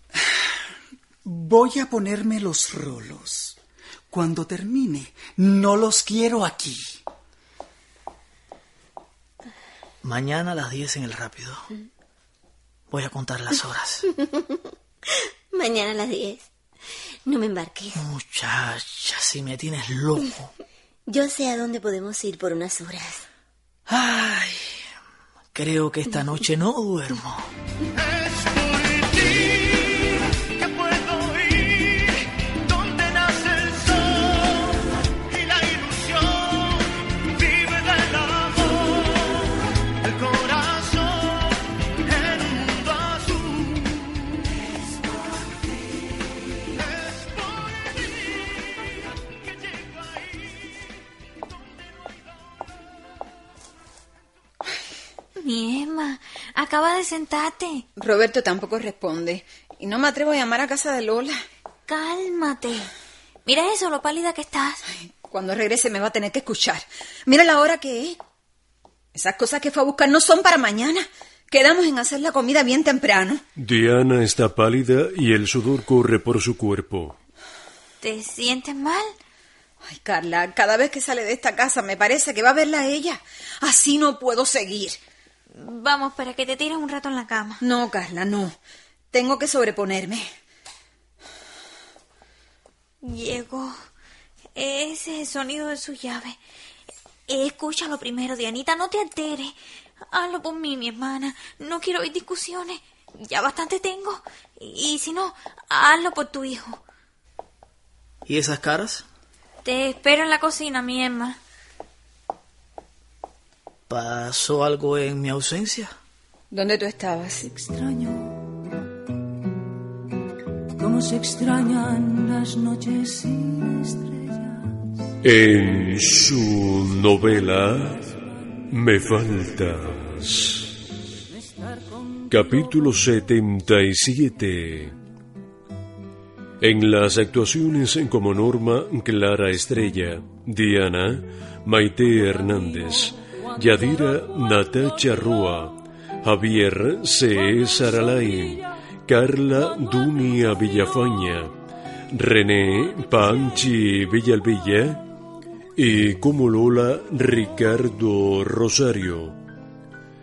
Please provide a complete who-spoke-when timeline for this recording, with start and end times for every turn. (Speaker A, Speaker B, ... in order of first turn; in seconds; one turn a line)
Speaker A: 1.2-3.6
Speaker A: 4.1-7.0
Speaker B: 10.0-11.7
Speaker B: 12.9-14.1
Speaker C: 15.5-16.5
Speaker C: 17.2-18.0
Speaker B: 17.9-20.5
Speaker C: 21.1-23.2
Speaker B: 23.9-24.9
Speaker B: 25.5-27.5
Speaker D: 28.5-29.7
Speaker D: 30.6-34.7
Speaker D: 35.3-36.8
Speaker D: 37.3-39.4
Speaker D: 40.0-41.5
Speaker D: 42.1-43.7
Speaker E: 55.4-57.9
Speaker F: 58.0-61.4
Speaker E: 61.9-62.9
Speaker E: 63.4-64.8
Speaker F: 64.9-68.2
Speaker F: 69.1-73.4
Speaker G: 73.6-77.2
Speaker E: 78.0-79.1
Speaker F: 79.8-85.0
Speaker E: 85.6-87.6
Speaker F: 87.6-88.6
Speaker F: 89.1-90.3
Speaker E: 93.0-93.7
Speaker E: 94.5-96.4
Speaker E: 97.3-99.5
Speaker E: 100.1-106.8
Speaker B: 108.2-109.0
Speaker E: 109.6-111.4
Speaker B: 113.9-115.9
Speaker F: 116.5-117.5
Speaker H: 117.6-118.3
Speaker H: 120.8-124.3
Speaker G: 125.2-128.0
Speaker G: 128.7-130.7
Speaker G: 132.3-135.0
Speaker G: 136.6-151.5
Speaker G: 152.1-155.0
Speaker G: 155.8-159.3